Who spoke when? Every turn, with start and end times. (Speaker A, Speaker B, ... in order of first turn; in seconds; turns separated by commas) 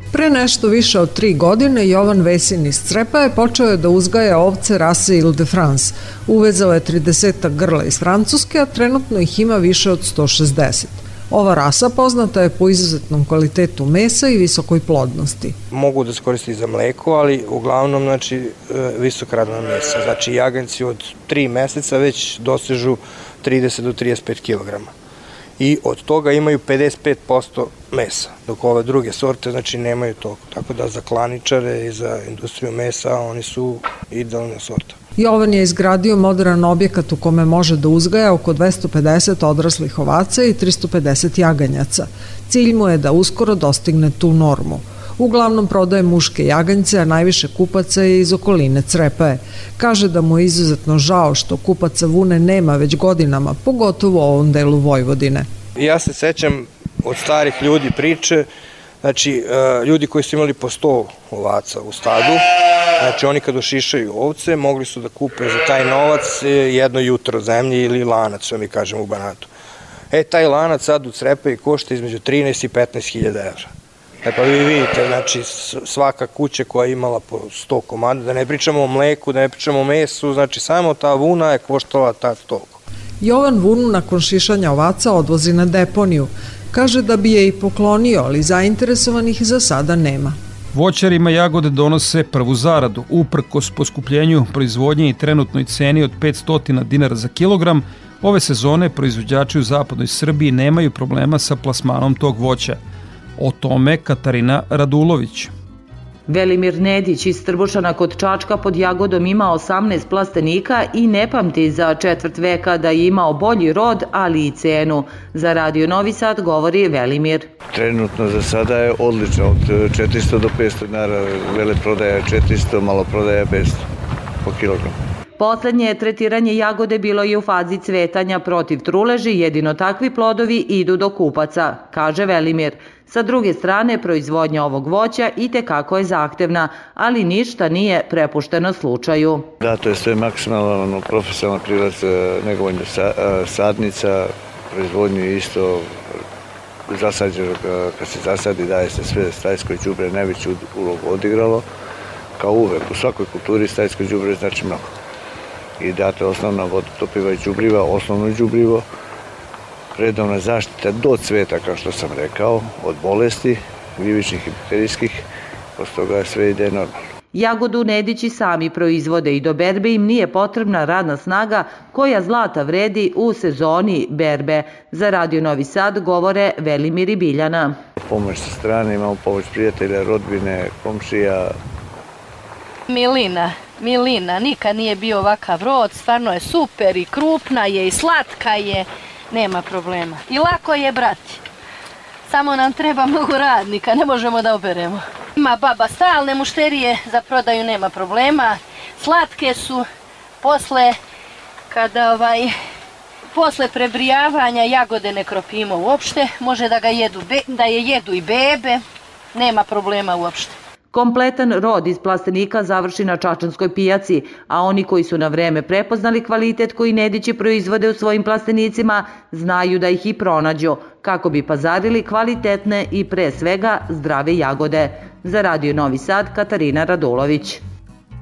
Speaker A: 0.1-15.6, Speaker B: 15.7-24.9, Speaker B: 25.6-35.0, Speaker A: 35.2-55.5, Speaker B: 55.8-58.5, Speaker B: 59.0-62.4, Speaker B: 63.0-69.5, Speaker B: 70.1-73.7, Speaker B: 74.2-82.8, Speaker A: 83.2-90.4, Speaker C: 90.7-102.8, Speaker C: 103.4-105.5, Speaker D: 106.3-117.5, Speaker E: 117.7-123.9, Speaker E: 124.4-124.9, Speaker D: 125.4-139.5, Speaker E: 139.6-146.0, Speaker E: 146.9-151.7, Speaker E: 152.4-154.9, Speaker E: 155.8-158.8, Speaker E: 159.9-165.2, Speaker E: 165.8-166.9, Speaker D: 167.3-177.8, Speaker E: 178.0-181.6, Speaker F: 182.9-191.4, Speaker F: 192.3-199.9, Speaker F: 200.4-201.0, Speaker F: 201.7-202.5, Speaker F: 203.3-208.8, Speaker F: 209.3-210.6, Speaker D: 210.9-227.6